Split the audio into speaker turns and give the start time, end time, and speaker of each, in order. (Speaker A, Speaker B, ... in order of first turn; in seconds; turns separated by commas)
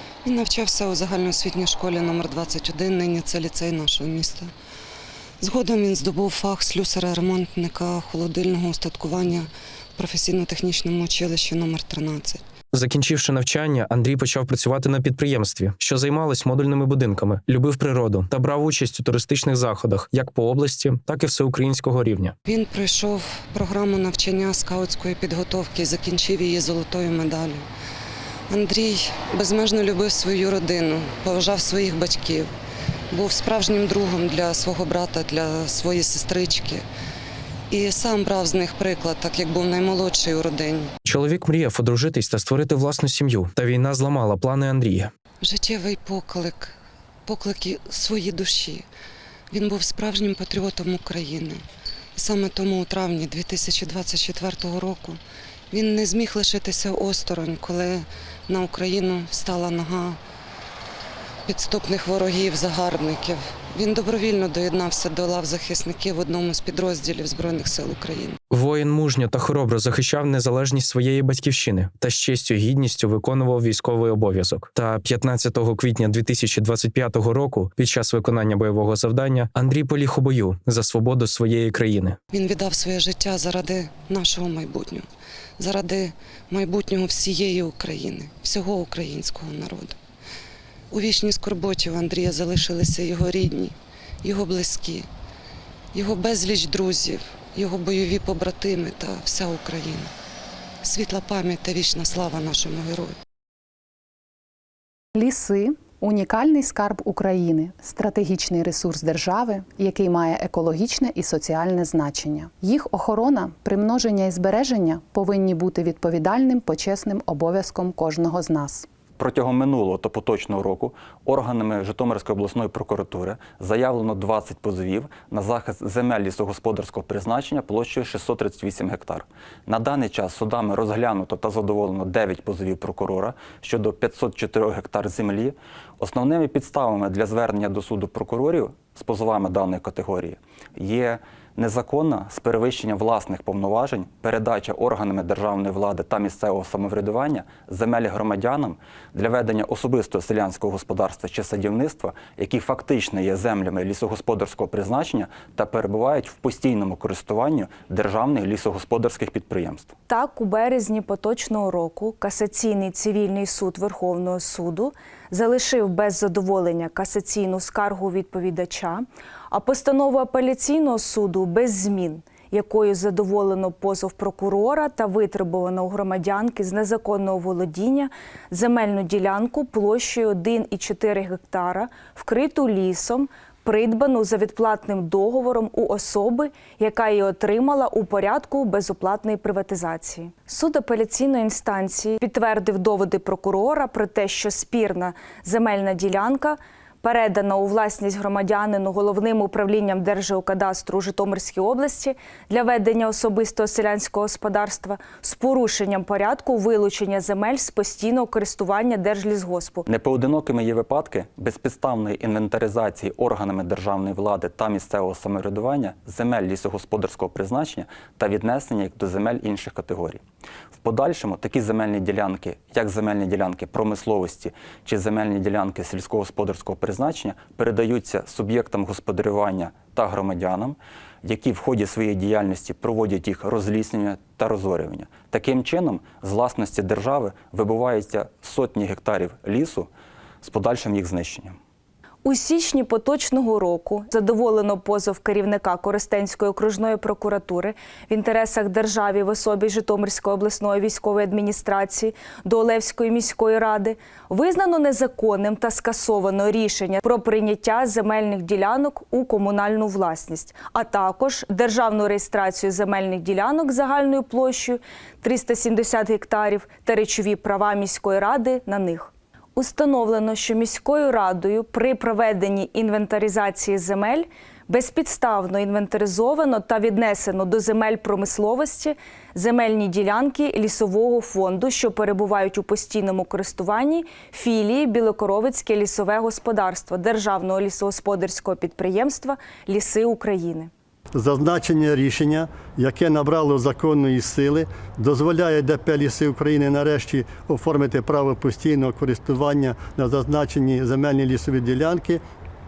Speaker A: 0.2-4.5, Speaker A: 5.4-12.4, Speaker B: 12.7-22.3, Speaker A: 22.5-27.6, Speaker A: 28.5-32.5, Speaker A: 33.1-36.8, Speaker A: 37.7-40.9, Speaker B: 41.1-45.1, Speaker A: 45.4-46.8, Speaker A: 47.3-48.8, Speaker A: 49.5-51.6, Speaker A: 52.2-55.2, Speaker A: 55.7-60.2, Speaker A: 61.5-68.3, Speaker B: 68.5-82.2, Speaker A: 82.3-85.0, Speaker A: 85.6-90.0, Speaker A: 90.9-95.1, Speaker A: 95.9-100.1, Speaker A: 100.8-103.2, Speaker C: 105.2-118.8, Speaker D: 119.2-159.9, Speaker E: 160.1-209.8, Speaker D: 209.9-220.2, Speaker D: 220.8-239.9, Speaker D: 240.4-241.6, Speaker E: 242.2-290.7, Speaker F: 291.1-302.2